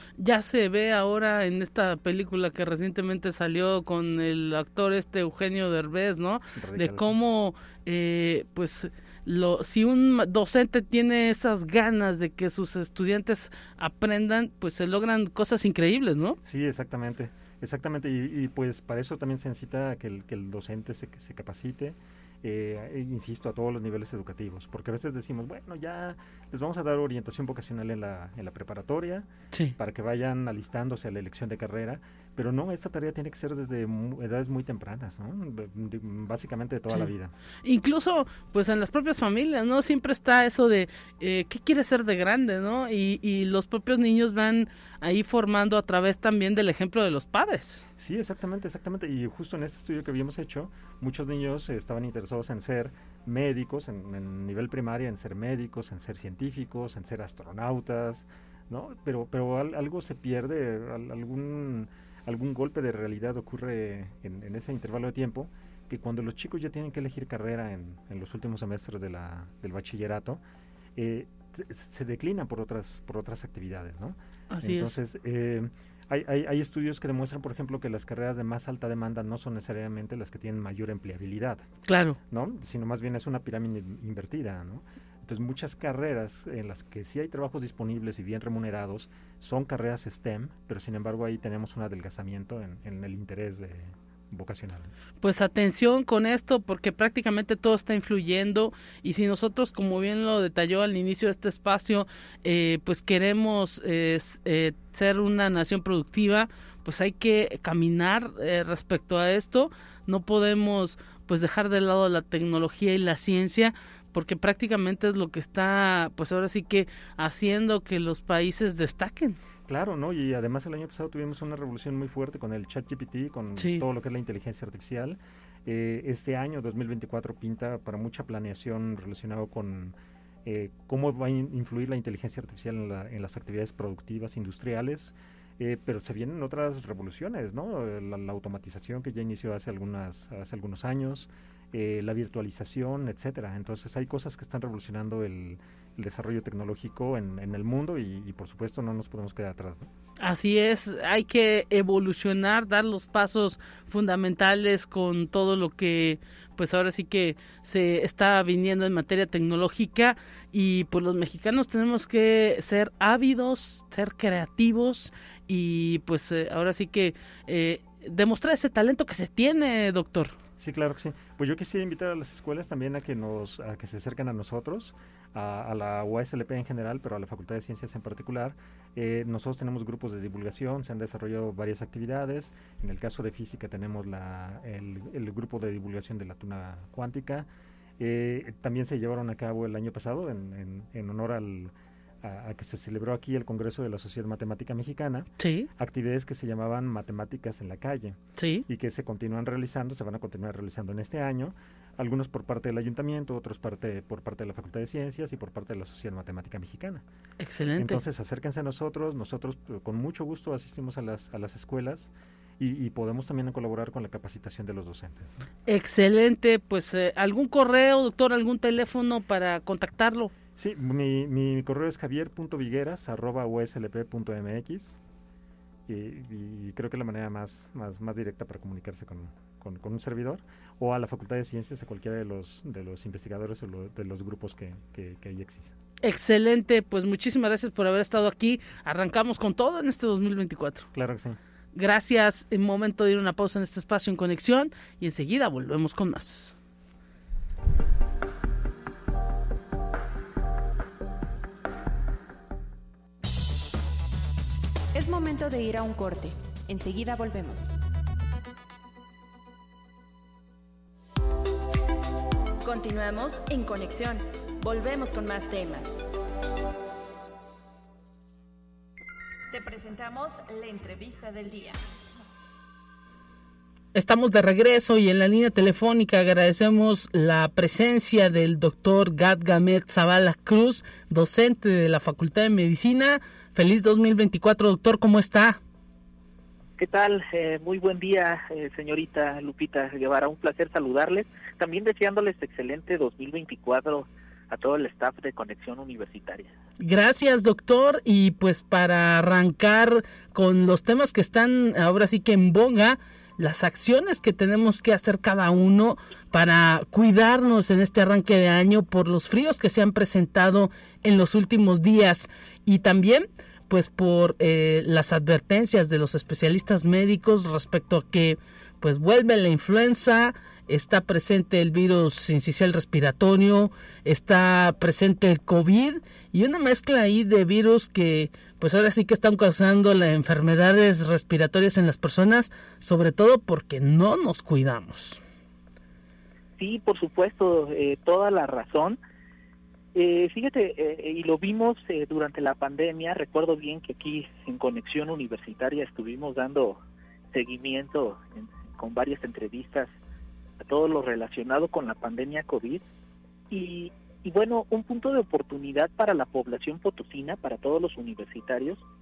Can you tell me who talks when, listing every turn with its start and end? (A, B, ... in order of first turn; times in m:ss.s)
0:00.2-0:16.4 A
0:06.6-0:07.2 B
0:16.4-0:37.3 B
0:37.6-0:47.8 A
0:48.0-1:10.4 B
1:11.0-1:21.7 B
1:14.5-1:14.9 A
1:21.9-1:22.2 A
1:22.3-1:34.9 B
1:35.2-1:59.4 A
1:59.7-2:29.9 B
2:03.6-2:03.8 A
2:30.2-2:50.3 A
2:50.6-3:07.5 B
3:08.0-3:27.0 B
3:15.4-3:15.7 A
3:18.4-3:18.6 A
3:27.4-3:28.0 A
3:27.8-3:35.3 B
3:35.7-3:40.3 A
3:40.6-3:45.0 B
3:45.9-3:55.8 B
3:56.0-4:00.9 A
4:00.9-4:01.4 B
4:01.7-4:06.6 A
4:14.9-4:17.7 C
4:22.6-4:25.9 C
4:29.5-4:31.8 C
4:33.9-4:45.6 A
4:46.8-4:56.5 D
4:56.8-5:35.2 A
5:36.6-5:39.0 D
5:39.9-5:46.8 D
5:47.3-5:49.9 D
5:50.6-5:52.8 D
5:53.5-5:58.8 D